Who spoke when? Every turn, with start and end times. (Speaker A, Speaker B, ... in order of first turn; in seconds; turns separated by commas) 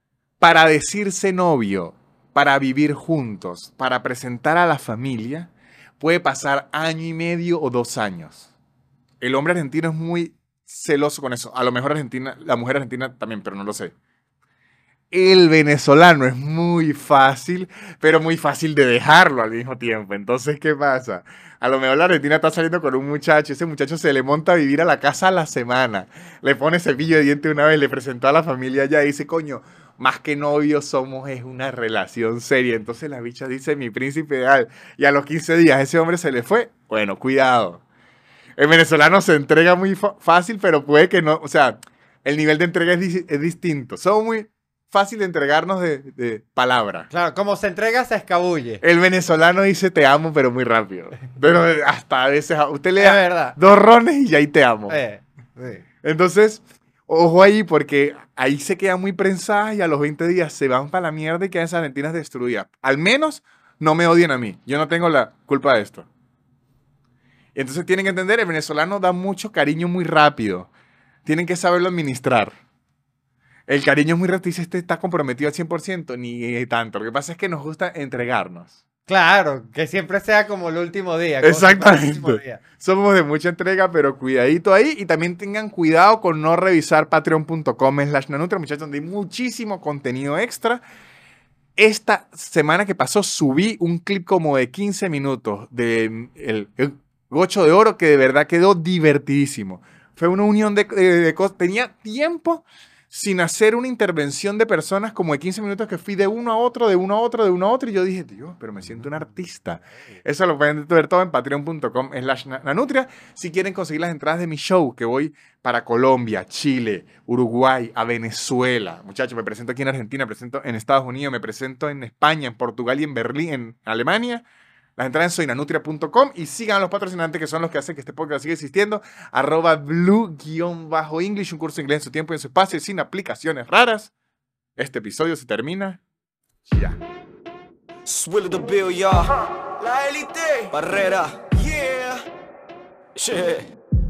Speaker A: 0.4-8.5, Speaker A: 9.2-13.9, Speaker A: 15.1-37.8, Speaker A: 38.6-47.1, Speaker B: 47.1-48.8, Speaker A: 48.8-55.0, Speaker B: 53.0-53.5, Speaker B: 54.9-55.8, Speaker A: 56.0-66.1, Speaker A: 67.5-70.7, Speaker A: 71.2-72.5, Speaker A: 73.7-78.8, Speaker B: 79.1-82.6, Speaker A: 81.4-90.8, Speaker A: 91.8-124.4, Speaker A: 125.0-134.1, Speaker A: 134.8-136.0, Speaker A: 136.7-137.0, Speaker C: 138.0-142.2, Speaker C: 143.1-143.7